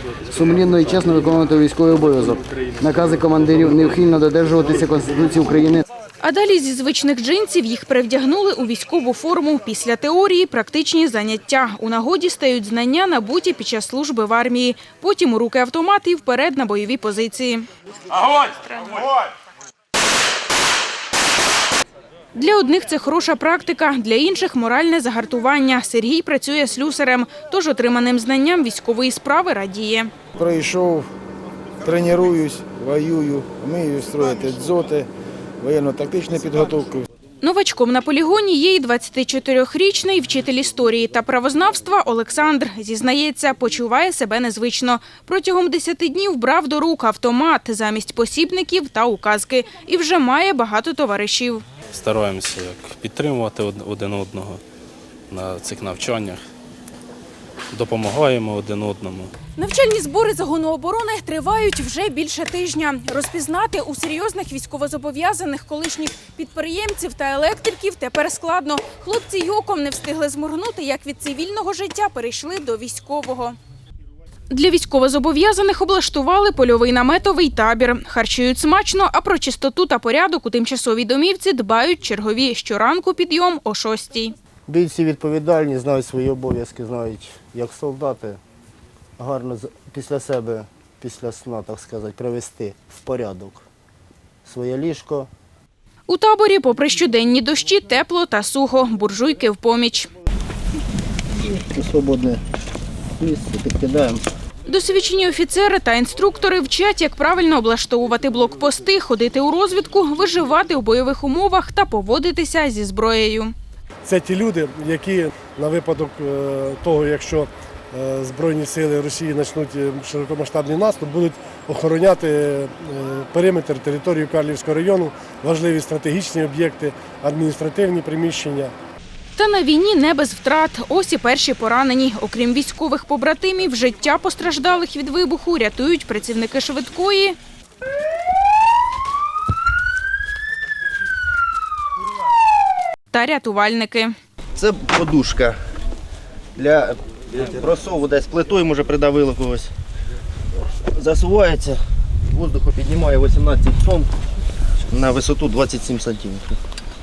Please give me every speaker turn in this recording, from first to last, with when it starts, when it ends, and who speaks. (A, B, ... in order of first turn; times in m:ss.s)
0:00.3-0:05.8 A
0:06.2-0:17.7 B
0:18.2-0:19.1 B
0:22.3-0:30.1 B
0:30.4-0:31.1 C
0:31.8-0:35.1 C
0:35.6-0:37.1 C
0:37.4-0:51.6 B
0:51.9-0:54.6 D
0:55.3-0:56.4 D
0:57.7-0:59.3 D
0:59.6-1:13.6 B
1:14.5-1:24.3 B
1:24.7-1:28.4 E
1:29.2-1:33.7 E
1:34.4-1:35.3 E
1:36.1-1:40.1 B
1:41.4-1:42.4 E
1:43.2-1:44.2 E
1:44.7-1:53.6 B
1:54.0-2:08.7 F
2:09.4-2:17.4 B
2:23.1-2:24.2 B
2:24.6-2:25.6 G
2:26.6-2:29.7 G
2:30.9-2:34.1 G
2:34.9-2:36.6 G